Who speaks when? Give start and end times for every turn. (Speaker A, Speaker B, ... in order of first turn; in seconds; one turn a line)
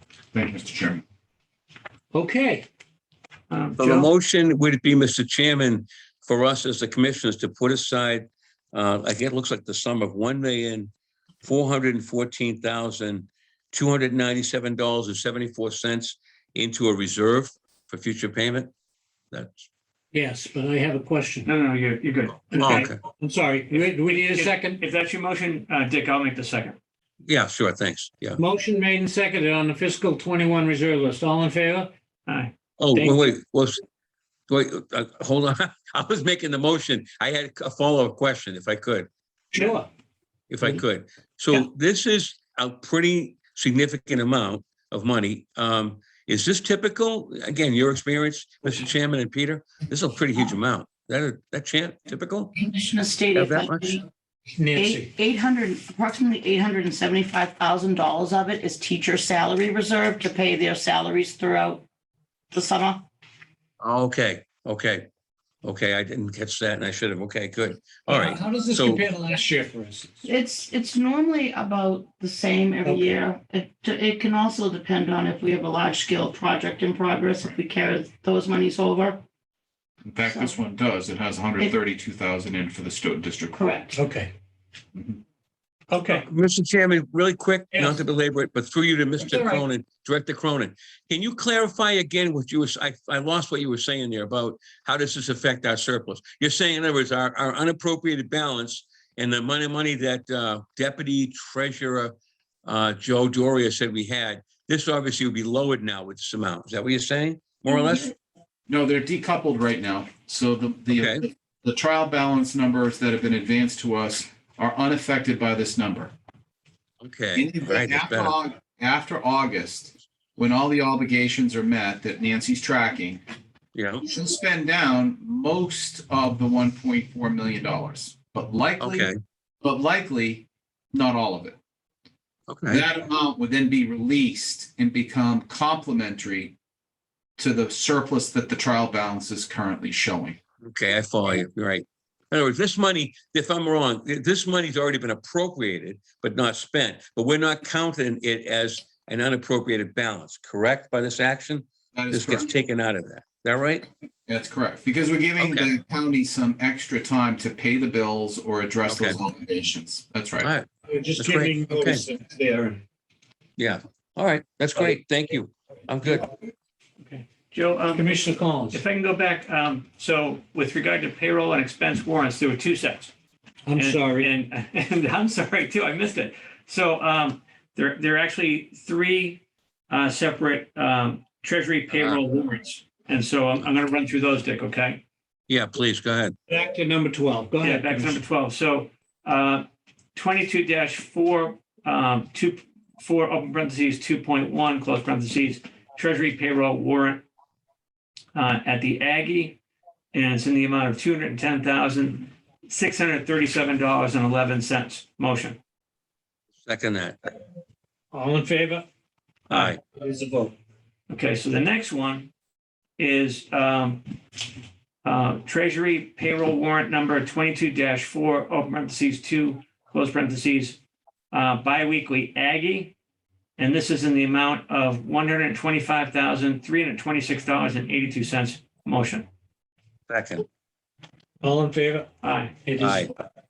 Speaker A: 0.3-1.0
Speaker B: 2.1-2.7
Speaker C: 3.5-4.1
Speaker D: 3.8-10.9
Speaker D: 11.4-18.7
Speaker D: 19.3-19.7
Speaker B: 20.1-21.5
Speaker C: 21.4-22.7
Speaker B: 22.5-24.8
Speaker D: 22.6-23.0
Speaker C: 23.7-26.8
Speaker D: 27.2-28.4
Speaker B: 28.4-31.9
Speaker C: 32.3-32.5
Speaker D: 32.8-33.8
Speaker B: 33.0-33.3
Speaker D: 34.5-39.1
Speaker B: 39.5-39.9
Speaker D: 40.5-52.6
Speaker E: 52.6-54.1
Speaker D: 53.4-54.0
Speaker B: 54.5-55.1
Speaker E: 54.7-61.9
Speaker E: 62.5-63.0
Speaker D: 63.8-65.1
Speaker D: 65.6-69.0
Speaker B: 68.1-70.3
Speaker E: 70.2-79.2
Speaker B: 72.8-73.2
Speaker A: 80.0-83.8
Speaker E: 83.5-84.0
Speaker B: 83.9-84.3
Speaker B: 85.9-86.3
Speaker D: 86.1-108.1
Speaker B: 87.7-88.0
Speaker B: 89.2-89.7
Speaker A: 108.7-116.2
Speaker D: 110.9-111.2
Speaker D: 117.0-118.4
Speaker A: 117.4-123.2
Speaker D: 123.8-124.0
Speaker A: 124.0-129.1
Speaker D: 128.8-129.2
Speaker A: 129.6-131.6
Speaker D: 132.5-132.9
Speaker A: 132.7-136.6
Speaker A: 137.4-140.4
Speaker D: 140.6-153.9
Speaker A: 151.9-152.5
Speaker A: 154.3-160.5
Speaker D: 155.4-155.7
Speaker D: 158.9-159.2
Speaker D: 160.4-160.7
Speaker B: 160.9-162.8
Speaker D: 161.2-162.1
Speaker D: 163.6-166.3
Speaker C: 167.0-168.1
Speaker B: 167.9-168.8
Speaker C: 168.7-173.1
Speaker B: 173.7-174.3
Speaker C: 173.8-185.0
Speaker D: 181.9-182.2
Speaker D: 185.5-186.4
Speaker B: 186.5-188.2
Speaker C: 187.6-197.2
Speaker C: 198.3-199.6
Speaker C: 200.1-205.6
Speaker D: 206.6-207.2
Speaker B: 208.1-208.9
Speaker D: 209.5-209.8
Speaker B: 209.9-210.5
Speaker C: 211.1-212.3
Speaker C: 213.0-214.1
Speaker C: 215.0-222.9
Speaker C: 223.6-229.3
Speaker D: 230.1-230.4
Speaker B: 231.4-232.1
Speaker C: 232.2-232.6
Speaker B: 232.6-233.1
Speaker D: 232.8-233.1